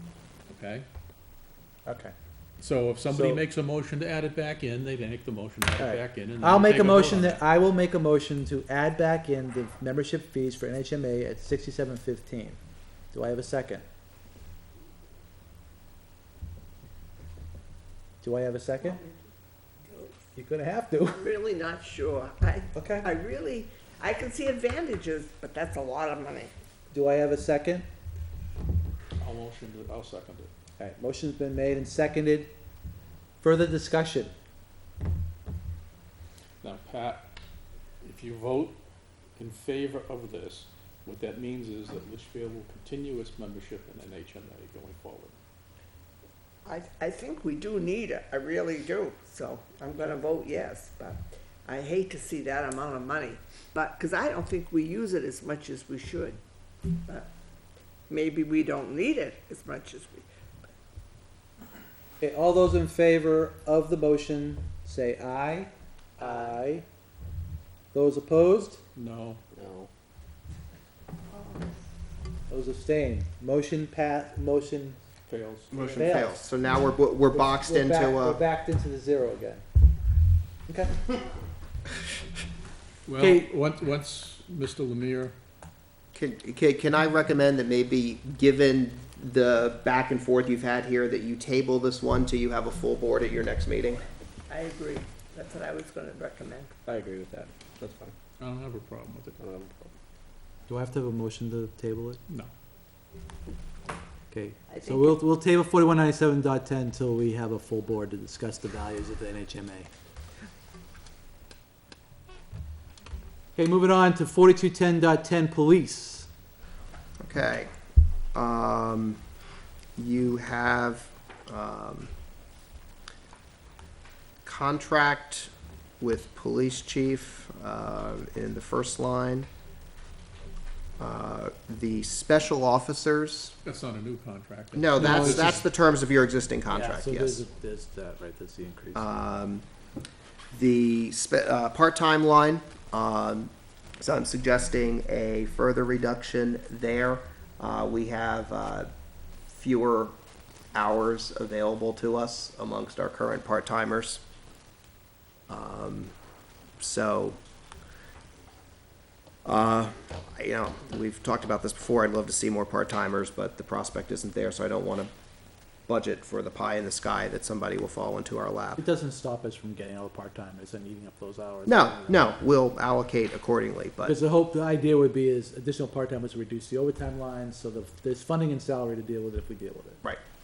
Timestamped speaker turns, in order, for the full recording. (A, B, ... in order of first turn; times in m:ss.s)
0:00.5-0:00.9 A
0:01.9-0:02.1 B
0:02.6-0:07.4 A
0:03.1-0:03.4 B
0:05.8-0:12.6 B
0:13.1-0:13.8 B
0:18.2-0:19.0 B
0:18.8-0:19.2 C
0:19.9-0:20.2 C
0:20.4-0:21.3 B
0:21.2-0:26.5 C
0:22.8-0:23.1 B
0:26.9-0:27.9 B
0:29.2-0:30.5 A
0:30.8-0:32.5 B
0:33.4-0:34.3 B
0:36.6-0:37.3 A
0:38.0-0:38.8 A
0:39.4-0:45.4 A
0:46.6-0:56.4 C
0:58.1-1:00.3 C
1:02.2-1:06.8 B
1:06.2-1:06.6 C
1:07.9-1:08.8 B
1:09.0-1:09.4 A
1:09.5-1:09.9 D
1:12.5-1:15.0 B
1:15.3-1:15.7 A
1:15.7-1:18.4 E
1:15.8-1:16.5 B
1:17.3-1:19.6 B
1:20.7-1:21.1 B
1:23.1-1:25.4 A
1:23.2-1:23.5 B
1:26.2-1:34.0 E
1:34.5-1:36.8 C
1:36.8-1:38.2 D
1:38.4-1:39.4 A
1:39.4-1:39.9 D
1:40.7-1:42.2 B
1:44.3-1:49.9 B
1:44.7-1:45.2 C
1:53.6-1:56.3 B
1:57.2-1:57.7 E
1:58.4-1:59.2 E
2:00.0-2:02.1 E
2:04.4-2:05.5 E
2:06.0-2:09.5 E
2:11.0-2:13.6 E
2:13.6-2:15.6 A
2:14.8-2:17.4 E
2:15.0-2:15.6 B
2:16.7-2:19.3 B
2:19.0-2:19.6 E
2:20.5-2:28.9 E
2:29.5-2:30.1 E
2:30.7-2:34.2 E
2:35.5-2:36.1 E
2:36.8-2:37.4 E
2:39.4-2:45.1 E
2:45.9-2:48.8 E
2:48.8-2:52.4 B
2:51.7-2:54.2 E
2:54.0-3:00.0 B